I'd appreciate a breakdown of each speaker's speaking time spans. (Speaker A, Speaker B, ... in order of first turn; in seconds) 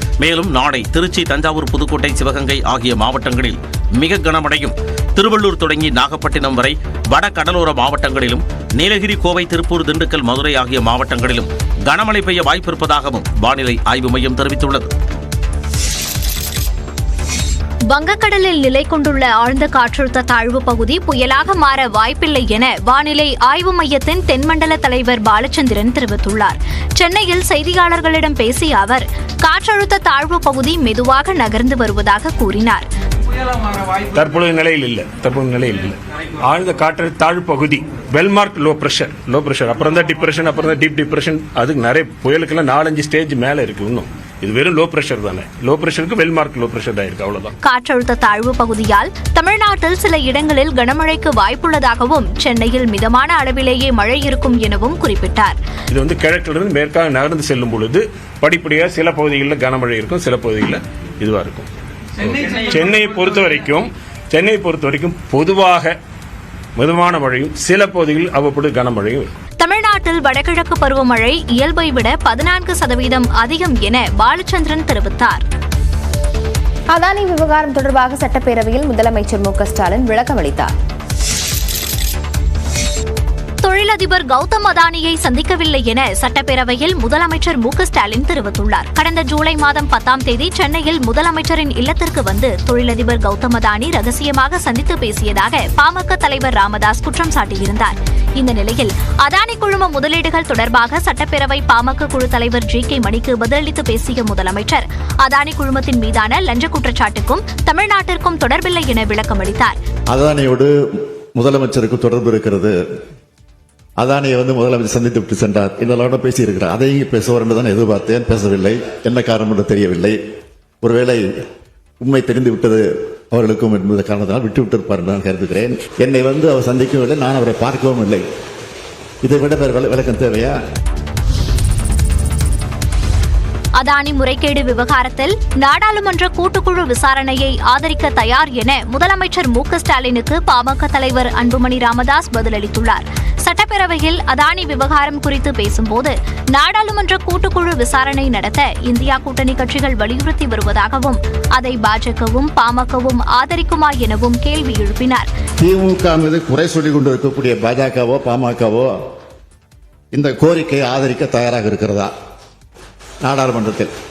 Speaker A: 0.2-14.9
Speaker B: 17.9-32.8, 47.6-55.6, 69.6-75.4, 83.6-109.8, 133.8-155.3
Speaker C: 34.1-47.5, 55.9-61.7, 62.2-66.0, 66.8-69.3
Speaker D: 76.9-80.7
Speaker E: 110.1-110.7, 111.3-112.7, 114.0-120.2, 120.8-121.2, 122.0-128.2, 129.2-130.6, 155.6-158.9, 160.1-162.1, 163.2-163.9